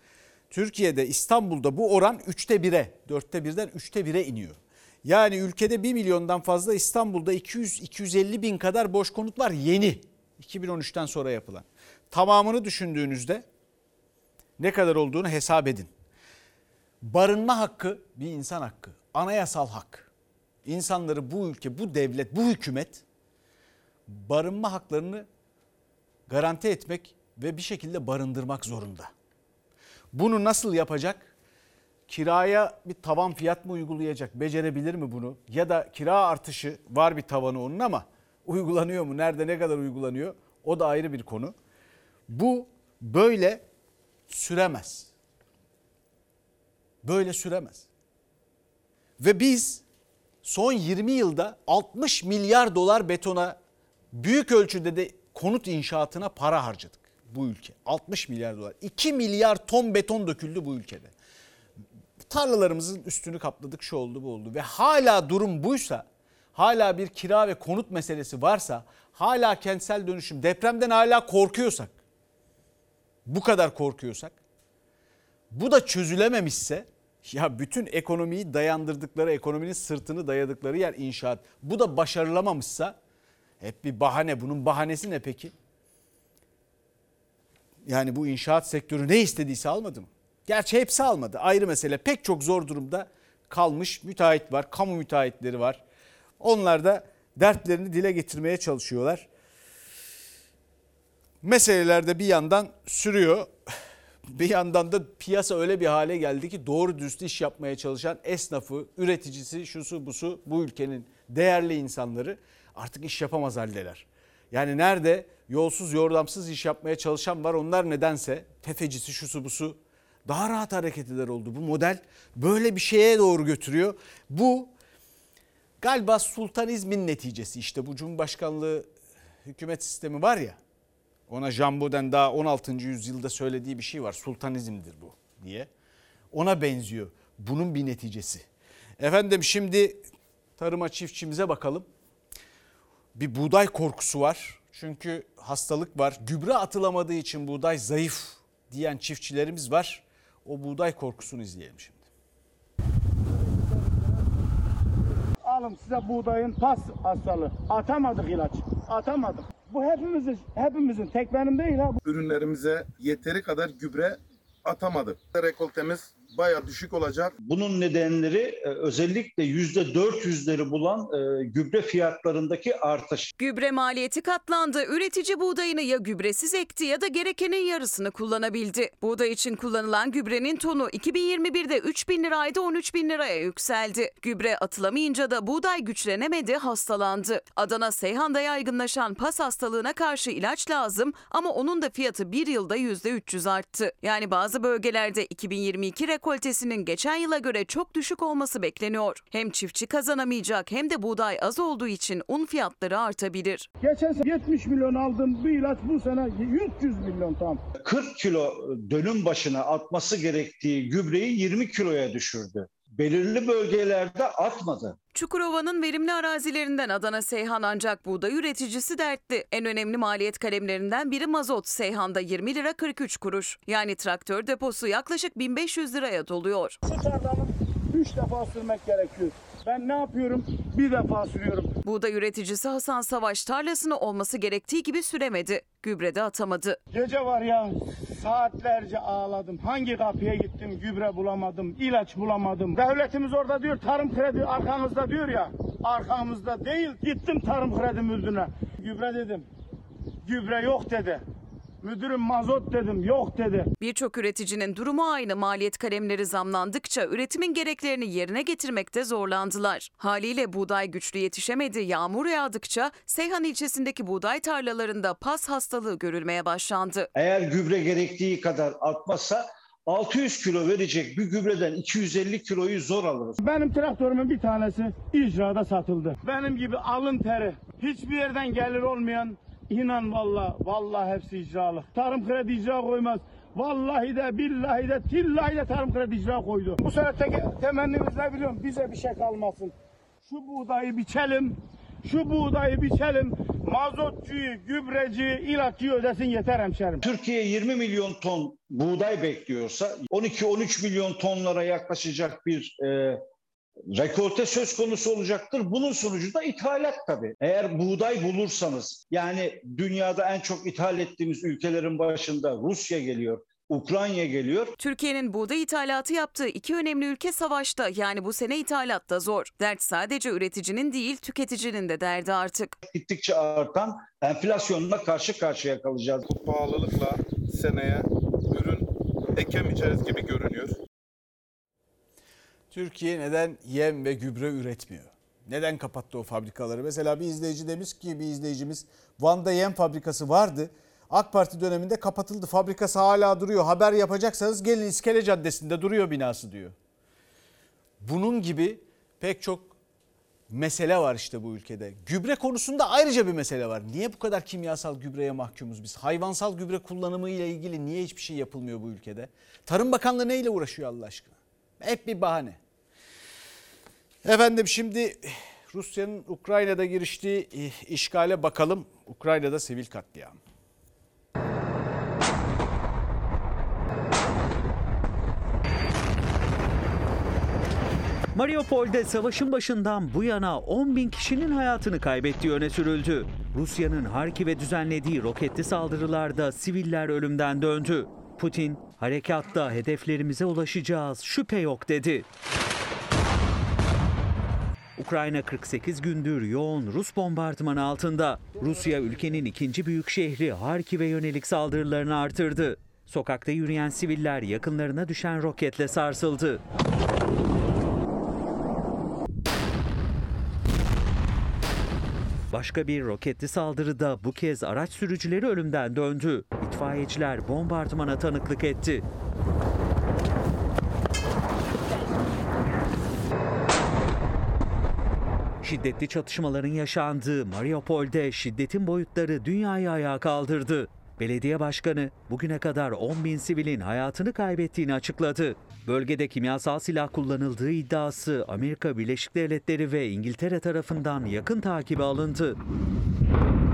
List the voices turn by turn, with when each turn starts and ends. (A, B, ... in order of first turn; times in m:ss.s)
0:00.5-0:13.4 A
0:14.6-0:15.9 A
0:17.0-0:20.1 A
0:20.6-0:23.0 A
0:24.1-0:25.2 A
0:26.3-0:29.1 A
0:30.1-0:31.3 A
0:32.1-0:41.5 A
0:42.3-0:43.6 A
0:44.3-0:45.1 A
0:47.0-0:47.9 A
0:49.2-0:49.8 A
0:50.4-0:53.6 A
0:54.1-1:01.1 A
1:02.3-1:12.0 A
1:13.2-1:14.4 A
1:15.5-1:23.0 A
1:23.6-1:25.5 A
1:27.8-1:35.8 A
1:36.4-1:39.3 A
1:41.4-1:43.5 A
1:44.3-2:04.7 A
2:05.8-2:08.9 A
2:09.4-2:10.6 A
2:11.3-2:15.7 A
2:16.3-2:18.4 A
2:19.0-2:20.0 A
2:20.6-2:21.9 A
2:23.1-2:32.0 A
2:35.4-2:42.0 B
2:42.1-2:47.3 C
2:47.4-2:53.3 D
2:53.4-3:23.7 E
3:23.8-3:27.6 B
3:27.8-3:35.0 D
3:35.1-3:46.8 E
3:46.8-3:51.7 B
3:51.8-3:56.8 E
3:56.9-4:09.4 B
4:10.2-4:11.2 B
4:11.8-4:13.7 B
4:13.8-4:27.1 E
4:27.2-4:33.4 D
4:33.4-4:49.7 B
4:50.3-4:57.0 B
4:57.0-5:03.2 D
5:03.9-5:14.7 D
5:14.8-5:22.7 E
5:22.9-5:26.2 D
5:26.3-5:28.8 C
5:29.4-5:30.8 C
5:32.7-5:46.7 A
5:48.0-5:49.7 A
5:50.5-6:02.6 A
6:04.2-6:10.4 A
6:18.3-6:32.2 F
6:35.0-6:46.6 F
6:52.5-6:59.0 F
7:05.6-7:22.6 F